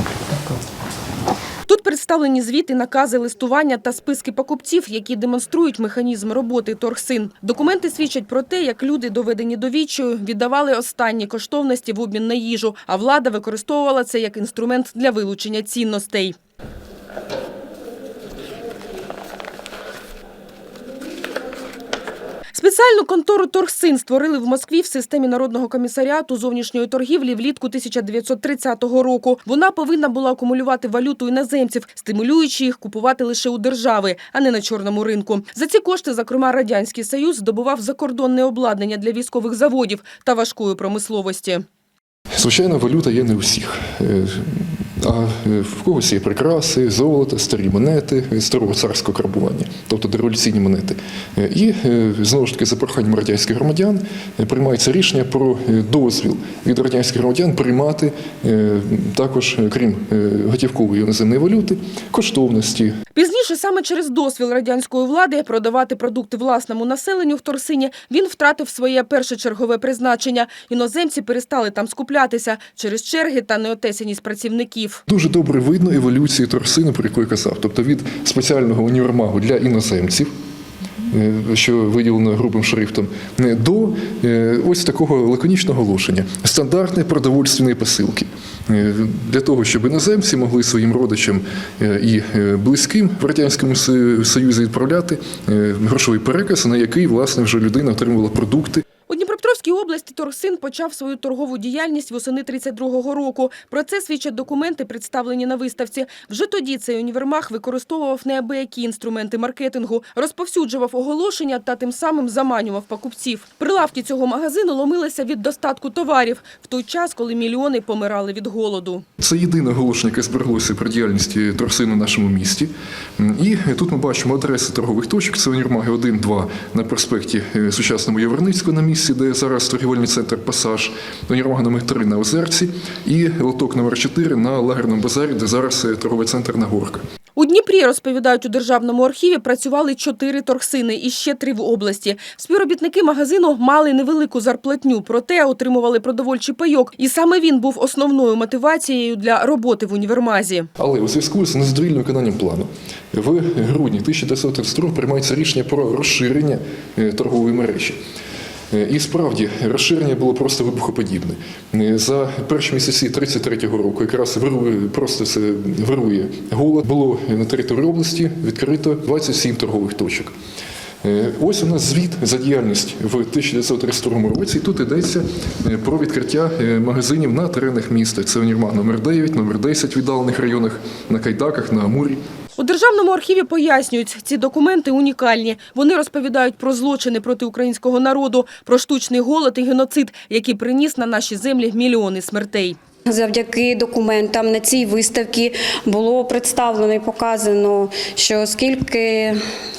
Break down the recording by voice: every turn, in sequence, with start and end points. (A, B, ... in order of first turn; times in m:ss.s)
0:01.6-0:16.4 A
0:22.5-0:41.6 A
0:42.4-1:02.9 B
1:03.1-1:15.0 A
1:15.1-1:20.3 B
1:21.1-1:38.8 B
1:39.1-1:59.0 A
1:59.2-2:17.0 B
2:17.4-2:30.7 A
2:30.8-2:38.0 B
2:38.7-2:50.3 B
2:51.0-3:02.2 B
3:02.6-3:12.8 A
3:13.1-3:19.4 C